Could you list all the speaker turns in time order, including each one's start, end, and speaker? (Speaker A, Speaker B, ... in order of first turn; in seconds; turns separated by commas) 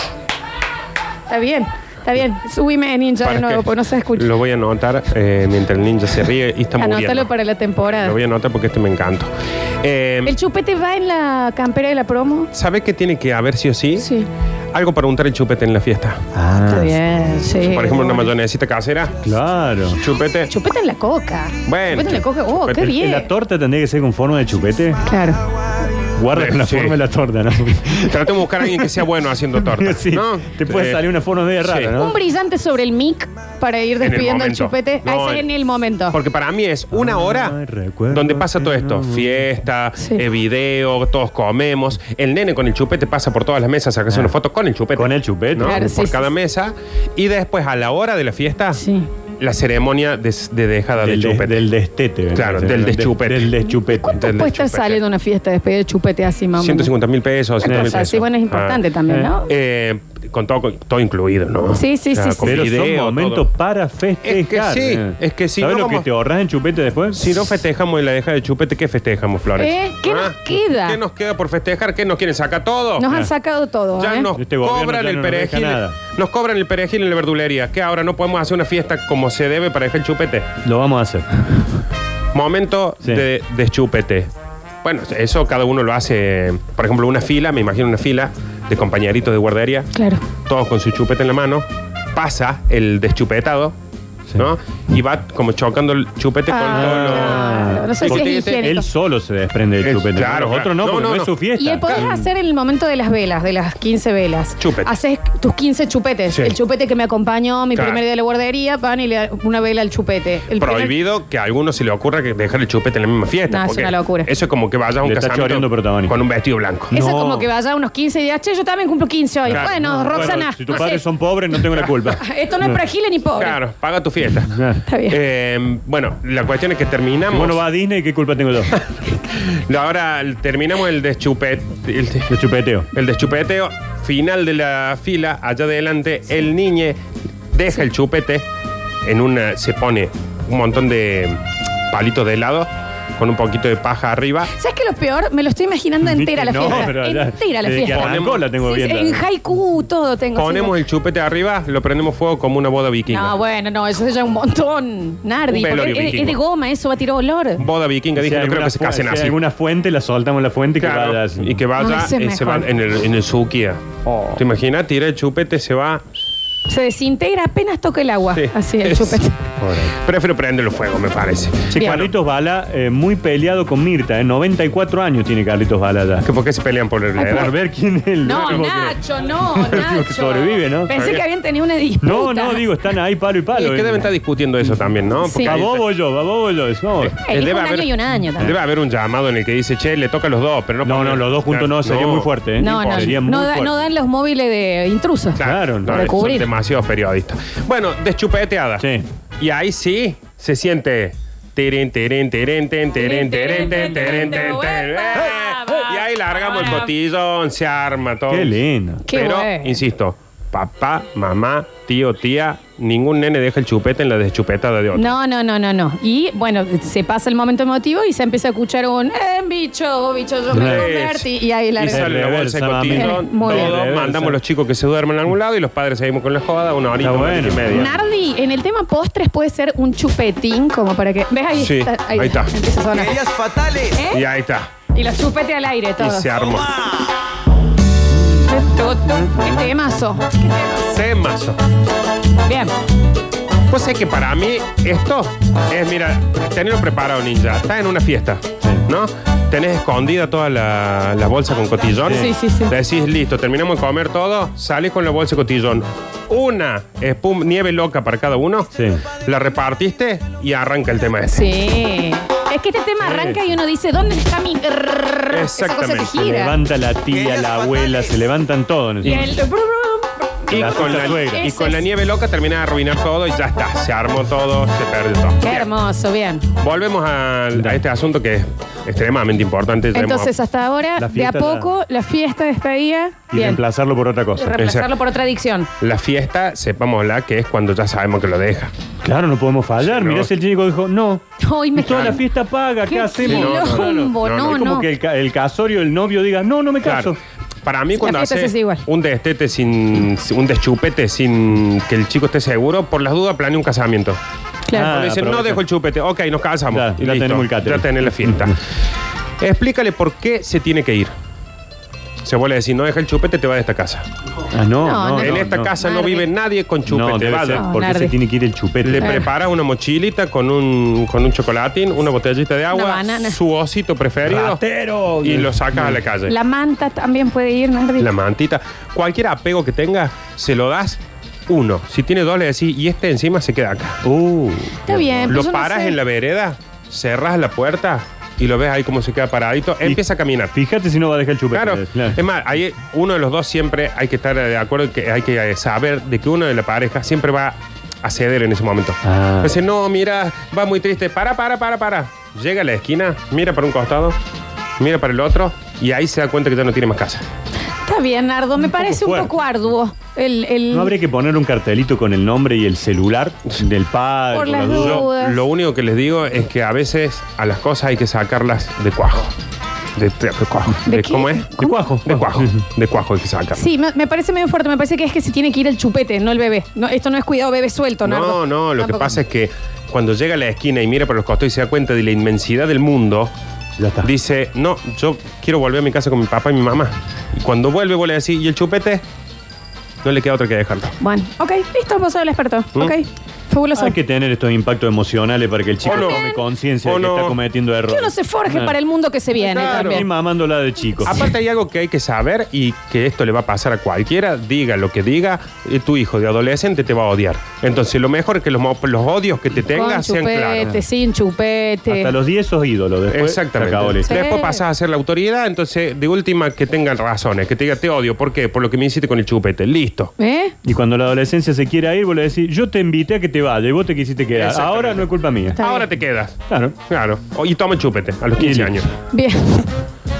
Speaker A: 1.3-4.3, Speaker B: 3.2-7.3, Speaker A: 6.8-8.2, Speaker B: 7.9-10.4, Speaker A: 10.2-12.5, Speaker B: 12.5-14.1, Speaker A: 14.0-14.3, Speaker B: 14.7-16.2, Speaker C: 16.3-16.9, Speaker A: 16.7-18.3, Speaker B: 17.6-19.2, Speaker C: 19.2-20.0, Speaker B: 20.0-20.5, Speaker A: 20.5-23.3, Speaker B: 21.6-22.9, Speaker C: 22.9-25.0, Speaker A: 25.0-25.4, Speaker C: 26.1-28.9, Speaker B: 26.3-27.0, Speaker B: 28.0-31.0, Speaker C: 29.6-32.2, Speaker B: 31.6-31.9, Speaker A: 31.9-36.2, Speaker B: 34.0-35.5, Speaker B: 36.1-37.6, Speaker C: 36.9-39.4, Speaker B: 38.1-48.8, Speaker A: 40.0-40.2, Speaker C: 44.9-45.9, Speaker A: 45.6-46.3, Speaker A: 48.7-49.1, Speaker B: 49.4-51.6, Speaker C: 51.0-54.2, Speaker B: 52.3-53.6, Speaker A: 53.6-56.9, Speaker B: 54.1-55.0, Speaker B: 56.6-58.8, Speaker A: 57.6-59.5, Speaker C: 57.6-58.1, Speaker B: 59.4-63.5, Speaker A: 61.7-62.7, Speaker C: 62.4-67.3, Speaker B: 64.2-66.0, Speaker B: 67.1-73.2, Speaker A: 69.6-71.0, Speaker A: 73.0-74.3, Speaker B: 74.0-80.5, Speaker C: 74.3-76.0, Speaker C: 80.6-81.6, Speaker B: 82.3-84.3, Speaker B: 84.8-93.8, Speaker A: 89.9-90.2, Speaker B: 94.3-98.7, Speaker A: 96.5-98.8, Speaker C: 96.7-102.2, Speaker B: 99.8-101.3, Speaker A: 101.5-110.9, Speaker B: 104.6-104.9, Speaker B: 107.7-108.0, Speaker B: 110.5-116.9, Speaker A: 113.5-114.3, Speaker C: 115.0-116.2, Speaker C: 116.9-117.5, Speaker A: 116.9-121.0, Speaker C: 119.5-122.8, Speaker B: 119.5-120.4, Speaker A: 121.7-123.6, Speaker B: 123.3-127.6, Speaker C: 124.5-124.8, Speaker A: 124.8-125.2, Speaker C: 127.3-128.8, Speaker B: 128.8-132.3, Speaker C: 132.3-132.9, Speaker B: 132.9-137.0, Speaker B: 137.5-138.5, Speaker B: 139.0-144.5, Speaker A: 144.5-150.8, Speaker C: 146.0-149.2, Speaker B: 147.9-148.4, Speaker B: 150.3-153.3, Speaker A: 153.1-157.6, Speaker B: 155.5-156.4, Speaker B: 157.6-159.4, Speaker C: 158.2-161.6, Speaker B: 160.8-166.0, Speaker A: 161.8-162.7, Speaker A: 166.7-169.4, Speaker B: 168.3-169.2, Speaker C: 169.6-169.9, Speaker B: 169.9-172.1, Speaker C: 171.7-176.3, Speaker A: 171.7-172.0, Speaker B: 176.2-177.5, Speaker C: 177.2-180.9, Speaker A: 178.2-182.7, Speaker B: 178.3-178.6, Speaker B: 180.9-181.2, Speaker C: 182.0-184.1, Speaker B: 183.5-185.9, Speaker A: 185.2-185.6, Speaker C: 185.4-187.2, Speaker B: 187.1-193.2, Speaker A: 187.2-188.5, Speaker C: 190.8-193.8, Speaker A: 192.6-196.5, Speaker B: 195.3-198.9, Speaker C: 195.4-196.4, Speaker C: 198.8-199.0, Speaker B: 199.4-215.1, Speaker A: 203.0-206.8, Speaker C: 208.3-209.0, Speaker A: 209.1-209.8, Speaker A: 214.9-222.1, Speaker C: 220.5-220.9, Speaker B: 220.5-227.9, Speaker C: 221.8-224.4, Speaker A: 222.9-223.8, Speaker C: 227.0-227.9, Speaker A: 227.7-233.2, Speaker B: 231.5-232.5, Speaker A: 233.8-234.2, Speaker B: 234.1-234.7, Speaker A: 234.9-236.3, Speaker B: 236.0-236.7, Speaker A: 238.3-240.9, Speaker B: 240.9-241.6, Speaker A: 242.4-242.7, Speaker B: 243.7-261.5, Speaker A: 252.1-252.7, Speaker C: 258.7-259.0, Speaker A: 261.3-266.6, Speaker C: 263.0-263.4, Speaker B: 265.3-266.2, Speaker C: 266.2-269.3, Speaker A: 269.0-271.8, Speaker B: 269.0-269.3, Speaker B: 270.5-275.7, Speaker C: 270.5-271.4, Speaker A: 275.4-276.5, Speaker B: 276.6-280.3, Speaker A: 279.9-283.6, Speaker C: 281.0-281.7, Speaker C: 283.3-284.5, Speaker A: 284.3-285.7, Speaker B: 284.6-284.9, Speaker B: 285.8-288.7, Speaker C: 289.0-291.2, Speaker B: 289.8-290.3, Speaker A: 291.4-292.2, Speaker C: 291.8-297.2, Speaker B: 291.8-292.2, Speaker A: 292.8-294.9, Speaker B: 293.2-294.7, Speaker B: 296.8-304.2, Speaker A: 297.9-298.9, Speaker A: 304.7-304.9, Speaker C: 304.7-305.6, Speaker B: 304.9-308.6, Speaker C: 306.7-308.5, Speaker B: 309.4-311.1, Speaker B: 312.2-314.1, Speaker C: 314.5-315.7, Speaker A: 314.8-316.3, Speaker B: 315.2-317.7, Speaker C: 316.9-319.2, Speaker A: 317.5-318.1, Speaker B: 318.8-324.6, Speaker A: 319.0-319.2, Speaker A: 322.7-323.4, Speaker C: 324.3-326.0, Speaker B: 325.2-326.4, Speaker A: 326.3-328.1, Speaker B: 328.0-334.0, Speaker C: 334.0-335.4, Speaker A: 334.9-336.0, Speaker B: 335.3-340.5, Speaker C: 340.5-342.2, Speaker B: 341.5-354.2, Speaker C: 349.0-349.5, Speaker B: 354.8-357.2, Speaker A: 357.8-360.9, Speaker C: 358.8-359.3, Speaker C: 360.7-365.1, Speaker A: 364.3-365.4, Speaker B: 364.7-369.3, Speaker B: 369.9-373.7, Speaker A: 370.8-371.8, Speaker C: 371.6-372.6, Speaker A: 373.5-379.2, Speaker B: 378.0-383.3, Speaker C: 383.8-384.1, Speaker B: 384.0-389.0, Speaker B: 390.0-390.9, Speaker A: 391.0-393.9, Speaker C: 393.7-398.7, Speaker B: 395.8-396.3, Speaker A: 395.9-396.4, Speaker B: 396.8-397.4, Speaker A: 397.9-400.0, Speaker B: 399.4-400.0, Speaker C: 399.6-401.2, Speaker B: 401.0-410.7, Speaker A: 409.7-412.1, Speaker C: 411.9-414.3, Speaker B: 413.1-420.1, Speaker A: 414.0-414.6, Speaker A: 420.2-420.5, Speaker C: 420.6-425.6, Speaker B: 424.3-428.9, Speaker A: 425.6-425.9, Speaker C: 426.5-426.8, Speaker C: 428.4-428.8, Speaker A: 429.1-429.7